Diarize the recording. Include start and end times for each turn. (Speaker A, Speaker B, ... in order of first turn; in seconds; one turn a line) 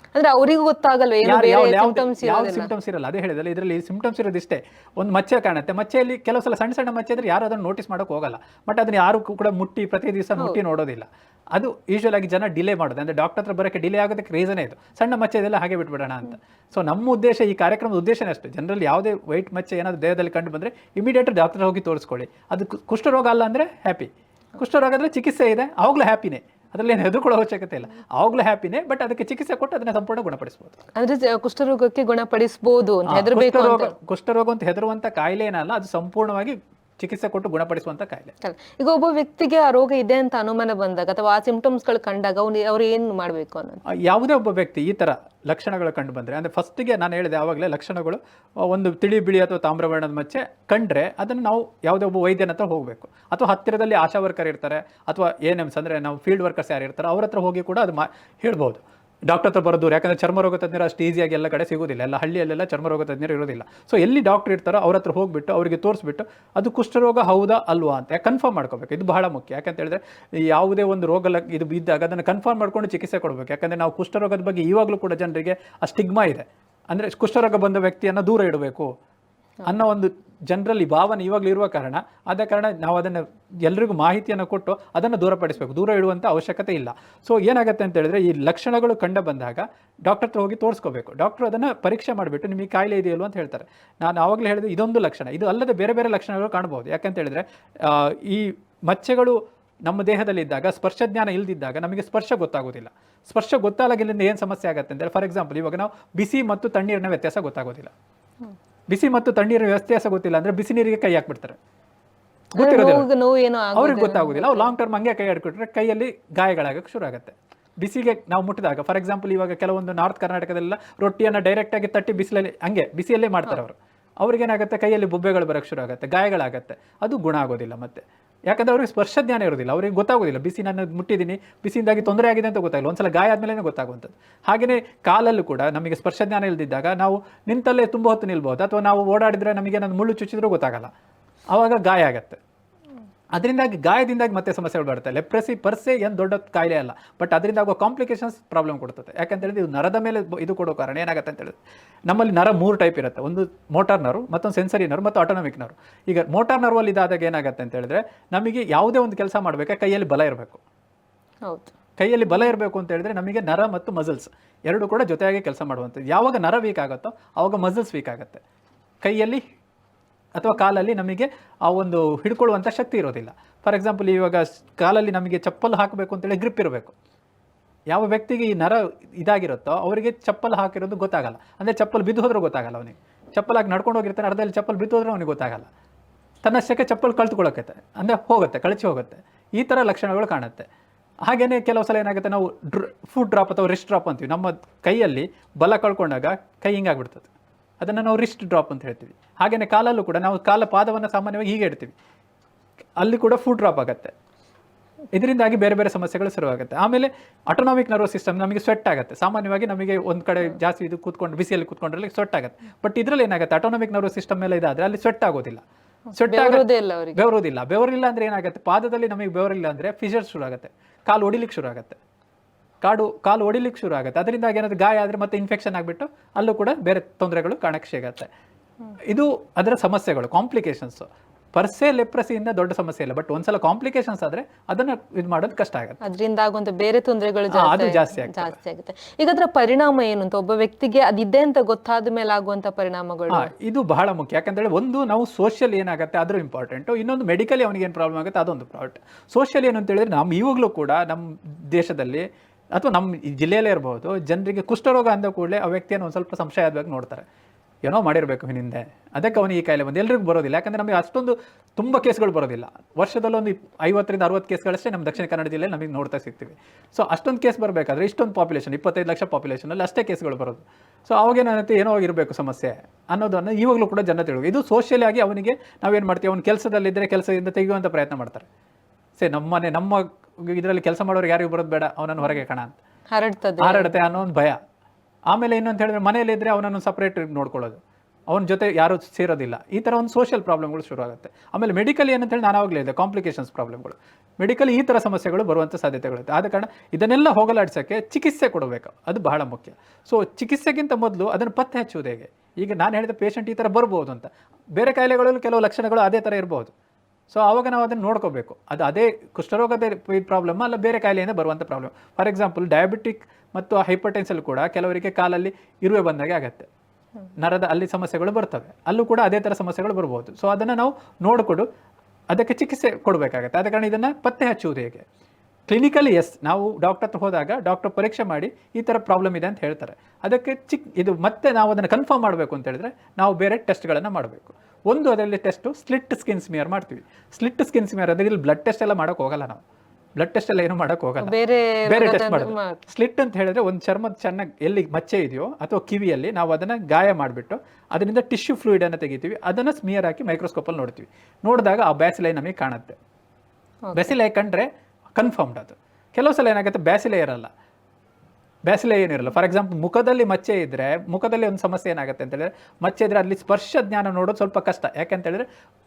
Speaker A: 0.1-2.7
Speaker B: 1.2-30.8
Speaker A: 30.9-33.9
Speaker B: 33.1-38.3
Speaker A: 38.4-43.8
Speaker B: 43.9-78.9
Speaker B: 79.6-107.9
Speaker B: 108.9-111.6
Speaker B: 112.5-113.1
Speaker A: 112.5-114.7
Speaker B: 113.8-140.9
Speaker B: 141.5-142.4
Speaker B: 143.3-160.6
Speaker A: 161.5-161.7
Speaker B: 162.0-168.4
Speaker B: 169.0-169.4
Speaker B: 170.3-176.9
Speaker B: 177.9-185.7
Speaker B: 186.4-190.7
Speaker B: 191.3-197.3
Speaker B: 197.8-201.9
Speaker B: 203.0-204.1
Speaker B: 205.1-215.6
Speaker A: 216.1-217.2
Speaker B: 216.2-222.0
Speaker B: 222.8-228.3
Speaker B: 229.0-236.0
Speaker A: 236.0-243.5
Speaker B: 237.5-238.6
Speaker B: 243.3-257.2
Speaker B: 257.8-278.4
Speaker B: 279.2-282.8
Speaker A: 283.1-283.9
Speaker B: 283.6-284.6
Speaker B: 285.3-287.8
Speaker B: 288.3-306.7
Speaker B: 307.3-316.7
Speaker B: 317.4-321.7
Speaker B: 322.3-325.0
Speaker B: 325.7-339.6
Speaker B: 340.2-341.3
Speaker A: 341.2-342.8
Speaker B: 341.9-353.0
Speaker A: 353.9-354.1
Speaker B: 353.9-357.5
Speaker B: 358.7-365.4